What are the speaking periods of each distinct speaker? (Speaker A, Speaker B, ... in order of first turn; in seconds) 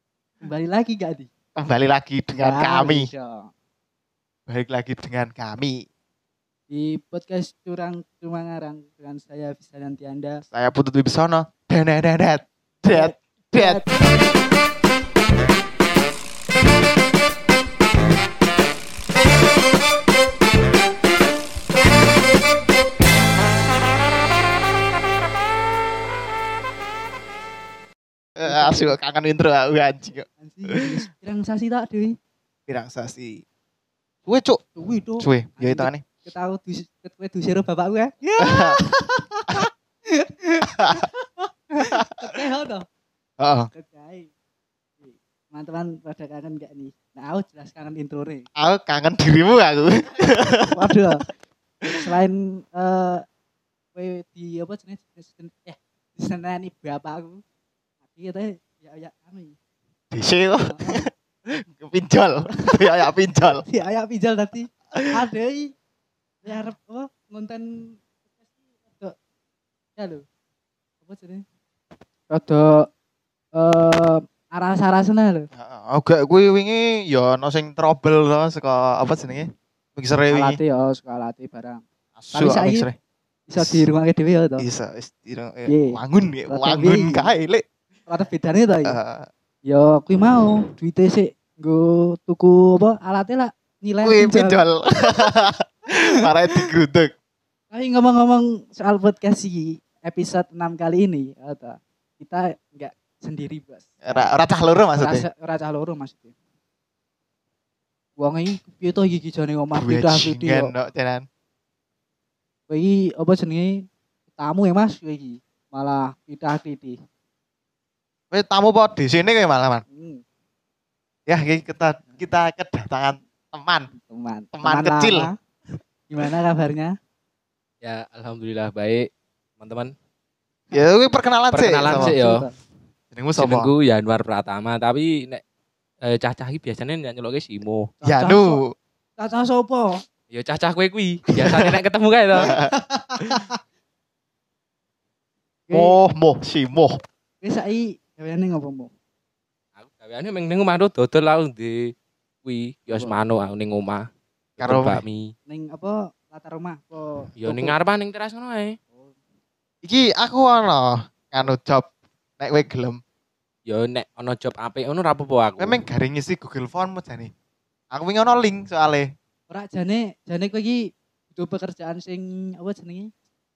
Speaker A: 0.4-1.3, 2.4-3.5, 6.7-10.4, 12.9-13.9, 28.4-29.0, 30.4-32.2, 34.7-42.9, 43.7-44.3, 45.0-48.5, 50.6-51.2, 51.9-53.2, 53.9-57.4, 58.1-59.5, 60.6-61.0, 62.6-62.9, 63.6-65.7, 66.4-68.0, 70.0-70.2, 71.0-71.4, 72.3-72.8, 73.5-75.5, 80.3-81.8, 82.3-82.9, 83.5-84.6, 85.7-87.2, 88.1-89.0, 89.7-94.6, 97.7-104.3, 105.0-106.3, 108.2-110.7, 112.7-113.8, 114.4-117.0, 119.9-120.2, 124.0-125.3, 126.1-126.9, 131.9-132.5, 138.0-138.6, 139.2-140.0, 142.4-143.6, 145.7-146.0, 147.4-148.9, 155.5-157.8, 169.5-173.1
Speaker B: 1.6-3.1, 4.5-5.8, 10.5-13.9, 28.4-30.7, 32.7-33.4, 34.2-34.6, 35.2-36.0, 38.4-38.8, 40.8-41.0, 41.8-42.2, 43.4-43.7, 48.6-50.8, 60.1-63.6, 75.5-80.6, 82.2-82.9, 83.6-83.8, 84.6-87.6, 88.8-89.3, 94.0-97.1, 104.0-105.2, 109.8-111.2, 118.3-119.8, 121.3-123.9, 124.5-125.3, 130.7-132.1, 133.1-133.7, 138.0-138.7, 142.3-142.7, 145.7-147.0, 154.6-155.0, 159.8-163.0, 165.6-167.3, 167.9-169.1
Speaker C: 127.8-129.1, 129.6-129.9, 131.5-132.4, 133.4-135.4, 136.0-137.9, 140.3-142.5, 149.8-151.9, 152.4-154.1, 154.6-155.3, 157.4-158.8, 163.7-165.8